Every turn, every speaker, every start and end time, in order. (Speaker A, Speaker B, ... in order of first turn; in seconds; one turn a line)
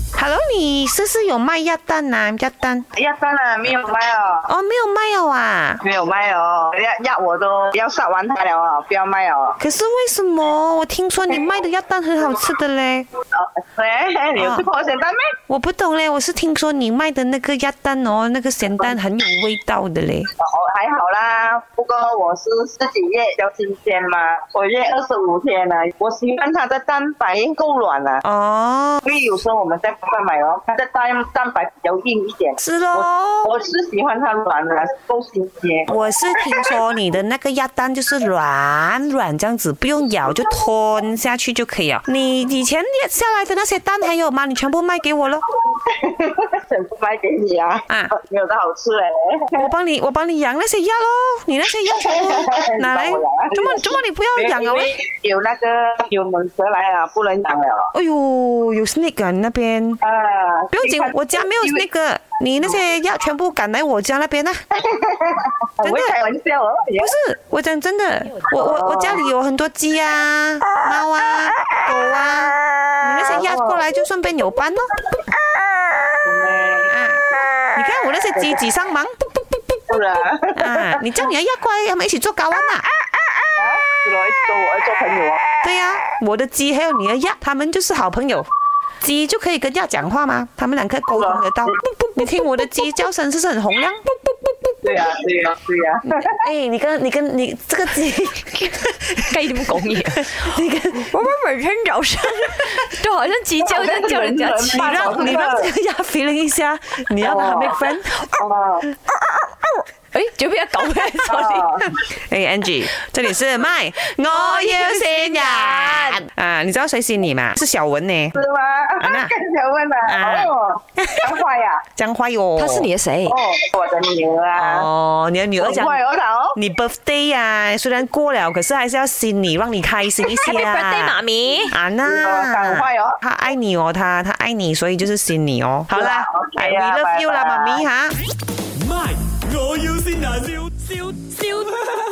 Speaker A: 0.2-2.9
Speaker B: 3.0-4.5
Speaker A: 4.5-5.8
Speaker B: 5.8-9.6
Speaker A: 9.6-13.1
Speaker B: 13.3-15.3
Speaker A: 14.4-14.7
Speaker A: 15.5-20.3
Speaker B: 20.4-28.2
Speaker A: 28.2-29.0
Speaker B: 29.0-36.0
Speaker A: 32.6-33.5
Speaker A: 35.9-45.4
Speaker B: 45.7-49.7
Speaker A: 49.5-54.9
Speaker B: 52.0-57.9
Speaker A: 57.9-60.0
Speaker B: 60.0-61.9
Speaker A: 60.7-64.6
Speaker B: 64.8-67.1
Speaker A: 65.8-66.1
Speaker A: 67.0-74.9
Speaker B: 68.5-69.2
Speaker B: 73.3-73.8
Speaker B: 76.2-76.9
Speaker A: 76.9-80.0
Speaker B: 79.9-81.0
Speaker A: 80.5-82.9
Speaker B: 83.6-85.4
Speaker A: 85.6-88.5
Speaker A: 89.0-94.5
Speaker B: 91.1-91.8
Speaker B: 94.8-96.3
Speaker A: 96.1-99.4
Speaker C: 99.2-100.3
Speaker A: 100.1-101.2
Speaker C: 101.0-105.4
Speaker B: 103.6-105.7
Speaker A: 104.7-108.4
Speaker B: 107.2-107.8
Speaker B: 108.4-108.9
Speaker C: 110.1-111.8
Speaker B: 111.3-111.9
Speaker A: 111.9-118.4
Speaker C: 114.3-116.2
Speaker B: 118.3-121.8
Speaker A: 119.0-119.3
Speaker A: 120.1-121.4
Speaker A: 122.0-122.9
Speaker C: 122.6-123.4
Speaker B: 123.3-124.9
Speaker A: 124.5-126.0
Speaker B: 125.6-126.6
Speaker A: 126.5-131.2
Speaker C: 130.3-131.8
Speaker A: 131.7-138.2
Speaker B: 132.1-133.2
Speaker B: 135.9-137.8
Speaker D: 138.8-141.2
Speaker C: 141.2-141.7